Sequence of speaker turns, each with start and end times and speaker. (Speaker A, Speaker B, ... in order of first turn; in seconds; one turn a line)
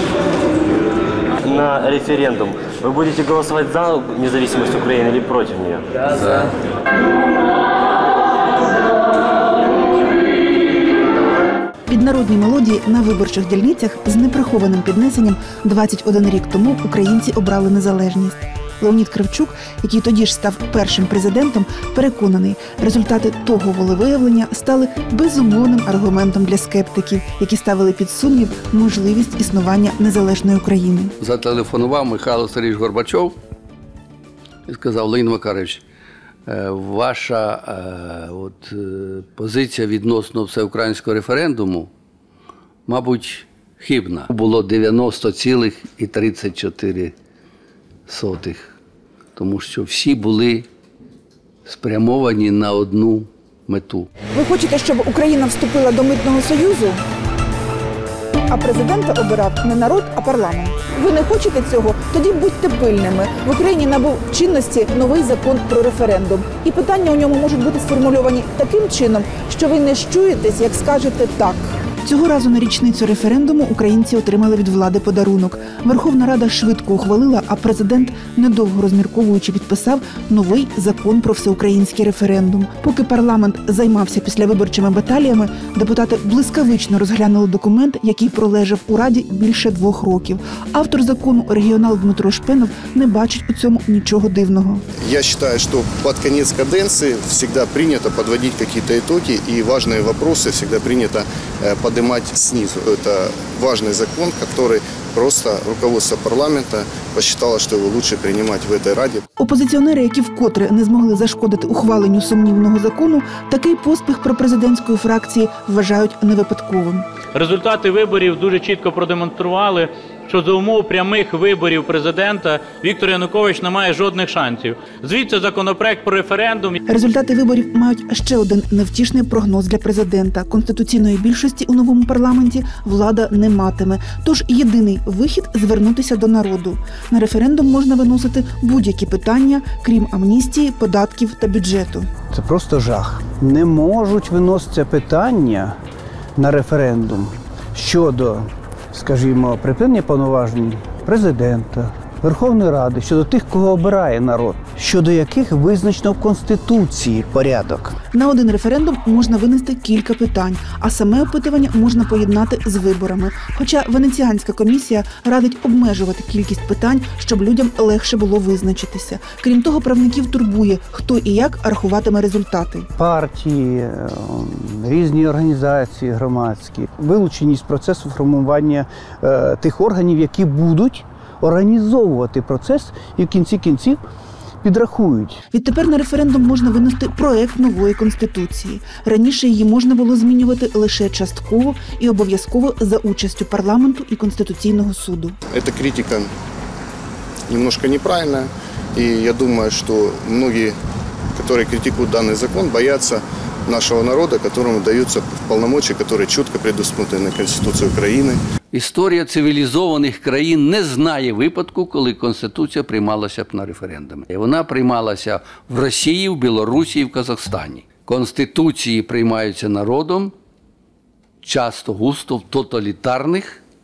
Speaker A: 1.4-6.5
Speaker B: 11.9-31.1
Speaker C: 31.2-33.4
Speaker C: 34.7-35.8
Speaker C: 36.5-41.9
Speaker C: 42.9-47.1
Speaker C: 48.1-48.7
Speaker C: 49.4-50.7
Speaker C: 51.7-54.1
Speaker B: 54.3-57.0
Speaker B: 58.5-94.8
Speaker D: 95.0-109.2
Speaker B: 109.4-117.1
Speaker E: 117.3-126.8
Speaker B: 126.9-142.1
Speaker F: 142.3-145.8
Speaker F: 146.4-158.0
Speaker B: 158.1-172.9
Speaker F: 173.0-184.0
Speaker F: 184.6-185.4
Speaker B: 185.5-195.4
Speaker D: 195.5-196.3
Speaker D: 197.5-200.8
Speaker D: 201.3-208.4
Speaker C: 208.7-220.3
Speaker C: 221.4-223.6